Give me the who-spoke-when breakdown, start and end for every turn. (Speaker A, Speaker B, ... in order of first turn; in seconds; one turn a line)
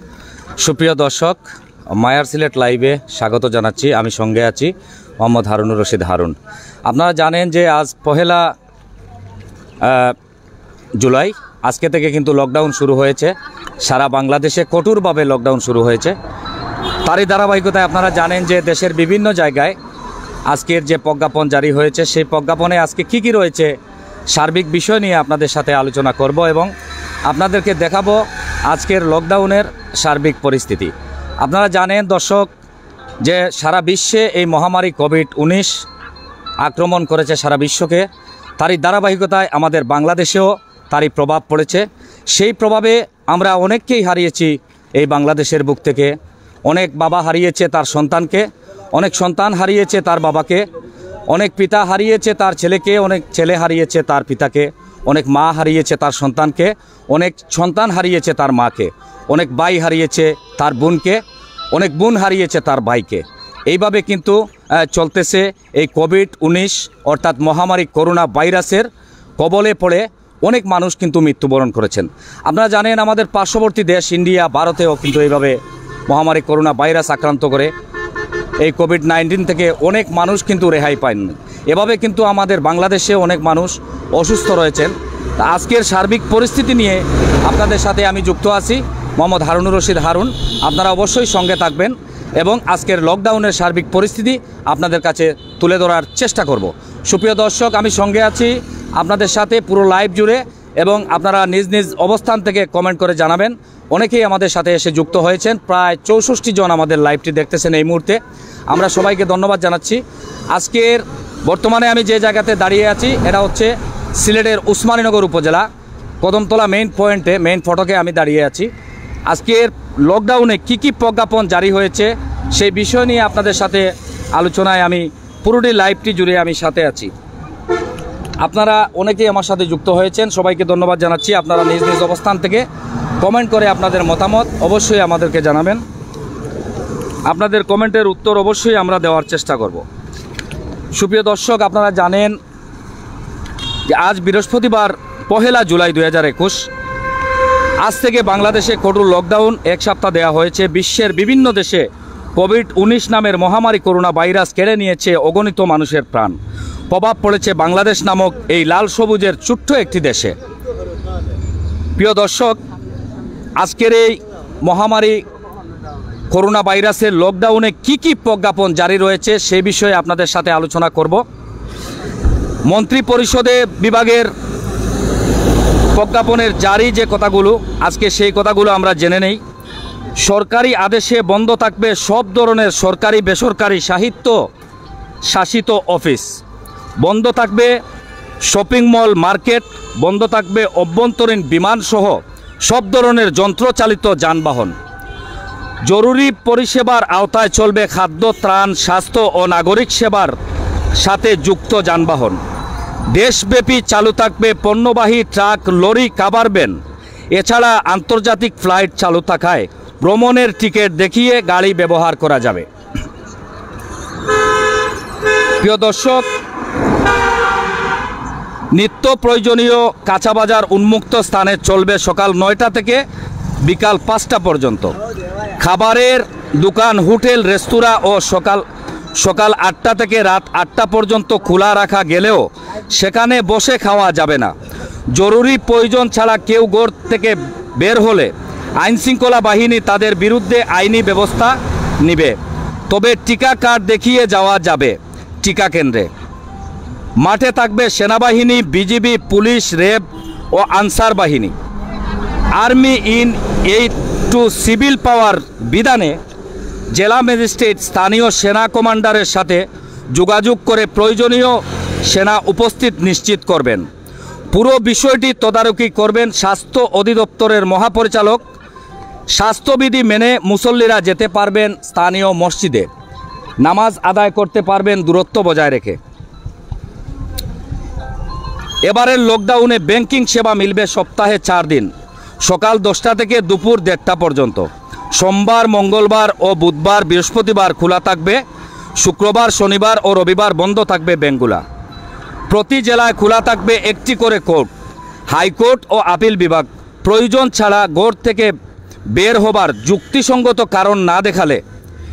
Speaker A: 0.6-6.3
Speaker A: 6.9-8.5
Speaker A: 9.8-10.2
Speaker A: 11.0-16.1
Speaker A: 17.0-19.8
Speaker A: 20.5-23.7
Speaker A: 24.3-26.7
Speaker A: 27.3-32.5
Speaker A: 33.2-35.8
Speaker A: 36.6-38.1
Speaker A: 38.6-46.1
Speaker A: 46.7-50.6
Speaker A: 51.3-61.2
Speaker A: 61.7-68.9
Speaker A: 69.4-77.7
Speaker A: 78.6-115.7
Speaker A: 116.2-118.7
Speaker A: 119.3-127.1
Speaker A: 128.4-132.6
Speaker A: 133.2-135.8
Speaker A: 137.3-139.8
Speaker A: 140.9-142.3
Speaker A: 143.9-146.7
Speaker A: 147.8-156.4
Speaker A: 156.9-160.3
Speaker A: 162.0-162.6
Speaker A: 163.6-165.2
Speaker A: 166.3-171.2
Speaker A: 172.7-174.3
Speaker A: 175.9-179.4
Speaker A: 180.2-184.4
Speaker A: 185.2-186.4
Speaker A: 187.0-187.8
Speaker A: 188.4-194.7
Speaker A: 195.8-200.3
Speaker A: 201.0-202.4
Speaker A: 203.1-206.8
Speaker A: 207.3-212.7
Speaker A: 215.6-216.3
Speaker A: 218.7-223.0
Speaker A: 223.6-224.9
Speaker A: 225.6-228.6
Speaker A: 229.2-234.5
Speaker A: 235.1-242.4
Speaker A: 242.9-246.1
Speaker A: 247.2-251.5
Speaker A: 252.5-256.2
Speaker A: 256.9-263.8
Speaker A: 264.5-268.4
Speaker A: 269.3-272.9
Speaker A: 273.6-276.0
Speaker A: 278.8-281.9
Speaker A: 282.4-288.4
Speaker A: 289.0-291.6
Speaker A: 292.5-294.7
Speaker A: 295.3-298.5
Speaker A: 299.1-301.6